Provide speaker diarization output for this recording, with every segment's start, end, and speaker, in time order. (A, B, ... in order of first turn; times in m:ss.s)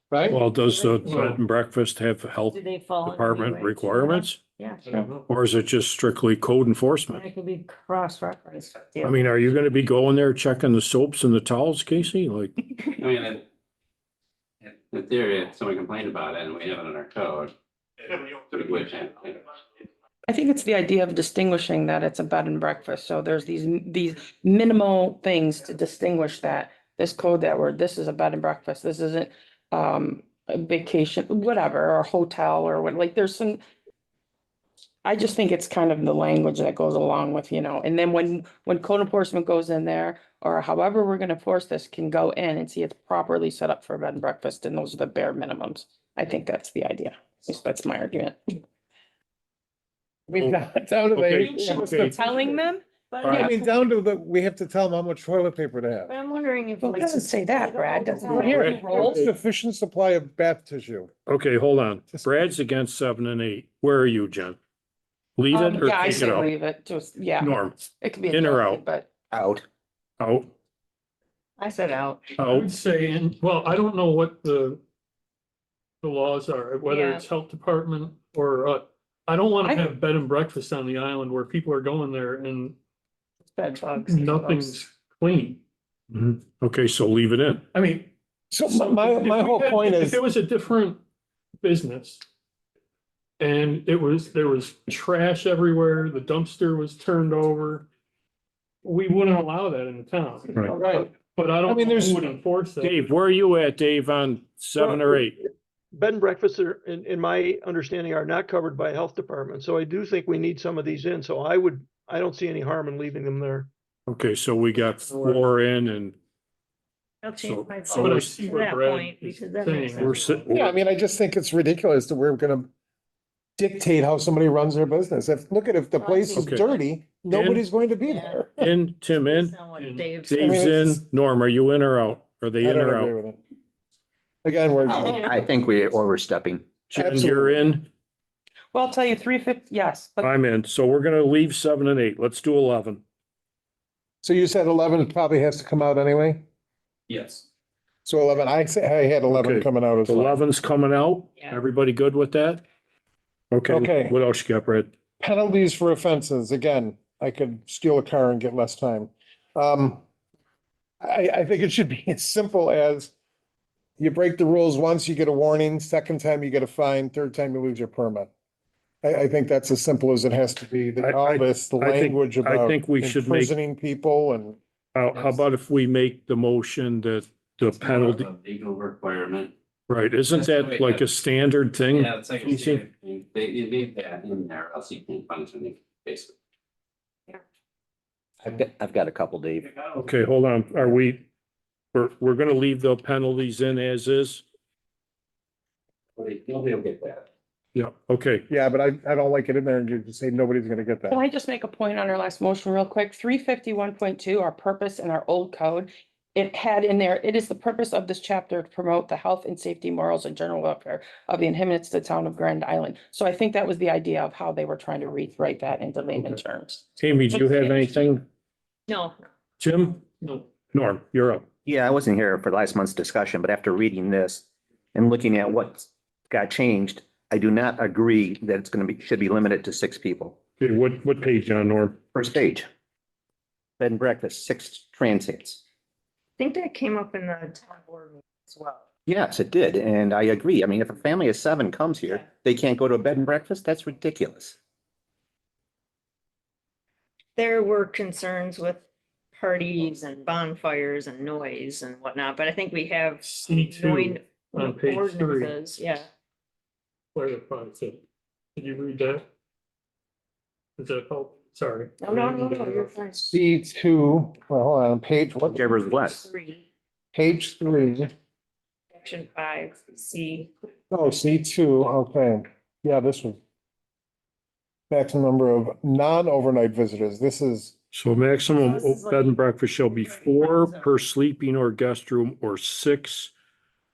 0:00.1-0:00.4 A
0:00.3-0:04.4 B
0:00.6-0:00.9 C
0:01.0-0:01.4 D
0:02.5-0:05.1 C
0:04.8-0:05.3 D
0:05.3-0:07.2 B
0:07.1-0:09.1 C
0:09.0-0:12.5 B
0:13.0-0:13.4 E
0:14.6-0:17.5 E
0:18.0-0:19.4 E
0:20.3-0:33.6 F
0:35.0-0:48.4 F
0:50.3-0:52.6 A
0:51.2-0:52.2 B
0:51.4-0:53.7 F
0:53.2-0:53.5 B
0:53.2-0:56.1 A
0:56.1-0:58.1 C
0:56.8-0:59.3 F
0:58.2-0:59.3 B
0:58.2-1:01.1 A
1:01.3-1:04.6 B
1:05.4-1:06.5 B
1:05.5-1:09.1 F
1:07.4-1:07.8 B
1:08.3-1:08.8 B
1:09.3-1:09.6 G
1:10.2-1:10.5 B
1:11.6-1:12.3 C
1:12.4-1:14.8 D
1:12.4-1:12.7 B
1:16.0-1:22.8 D
1:16.9-1:17.2 C
1:23.5-1:24.8 C
1:23.8-1:25.6 D
1:26.1-1:27.7 B
1:27.7-1:28.1 D
1:28.5-1:30.2 A
1:28.7-1:31.0 D
1:31.6-1:32.2 D
1:33.4-1:37.9 D
1:38.8-1:40.7 D
1:40.7-1:41.1 A
1:41.4-1:42.9 D
1:41.6-1:42.2 A
1:42.8-1:45.4 B
1:44.8-1:45.2 H
1:45.9-1:53.7 H
1:54.1-1:56.2 B
1:55.1-1:55.4 D
1:57.2-2:00.4 C
1:57.4-1:58.5 B
1:57.9-2:00.5 D
2:00.0-2:00.7 B
2:00.5-2:02.7 A
2:03.6-2:08.7 A
2:06.0-2:06.7 C
2:06.3-2:06.6 B
2:07.3-2:07.6 B
2:08.1-2:08.4 C
2:08.6-2:09.6 B
2:09.3-2:10.4 C
2:09.7-2:10.2 D
2:10.2-2:13.1 B
2:10.4-2:11.0 A
2:12.6-2:13.4 A
2:14.4-2:15.3 A
2:14.9-2:16.7 G
2:16.9-2:17.9 B
2:17.0-2:17.6 A
2:18.7-2:20.3 F
2:20.2-2:23.0 B
2:24.2-2:26.4 A
2:28.0-2:30.3 A
2:29.3-2:32.6 B
2:33.5-2:34.9 B
2:33.7-2:34.2 A
2:35.2-2:40.0 A
2:41.0-2:43.1 A
2:44.0-2:48.3 A
2:49.0-2:54.6 A
2:51.0-2:53.6 B
2:55.0-2:58.3 B
2:57.8-2:59.5 E
2:59.9-3:02.9 B
3:00.3-3:01.0 E
3:01.9-3:06.3 E
3:08.4-3:09.7 G
3:10.0-3:11.3 B
3:11.9-3:14.4 B
3:16.2-3:17.2 E
3:17.8-3:18.5 B
3:18.5-3:21.2 A
3:21.1-3:37.8 F
3:36.2-3:36.4 B
3:37.0-3:38.2 B
3:38.9-3:39.2 C
3:39.6-3:40.1 B
3:40.2-3:40.5 D
3:40.7-3:41.4 B
3:41.7-3:50.4 G
3:50.6-3:52.0 B
3:52.1-3:52.7 G
3:53.8-3:55.6 G
3:56.4-3:58.8 C
3:59.1-4:04.6 G
4:07.4-4:16.1 C
4:13.2-4:15.6 D
4:17.2-4:18.0 D
4:18.6-4:19.2 D
4:20.8-4:23.0 D
4:22.0-4:23.2 C
4:23.2-4:25.6 A
4:25.5-4:26.3 G
4:25.9-4:26.6 C
4:27.1-4:28.1 A
4:29.0-4:30.5 C
4:30.9-4:33.4 A
4:34.9-4:37.7 A
4:37.9-4:43.3 B
4:38.6-4:39.4 C
4:40.0-4:40.8 C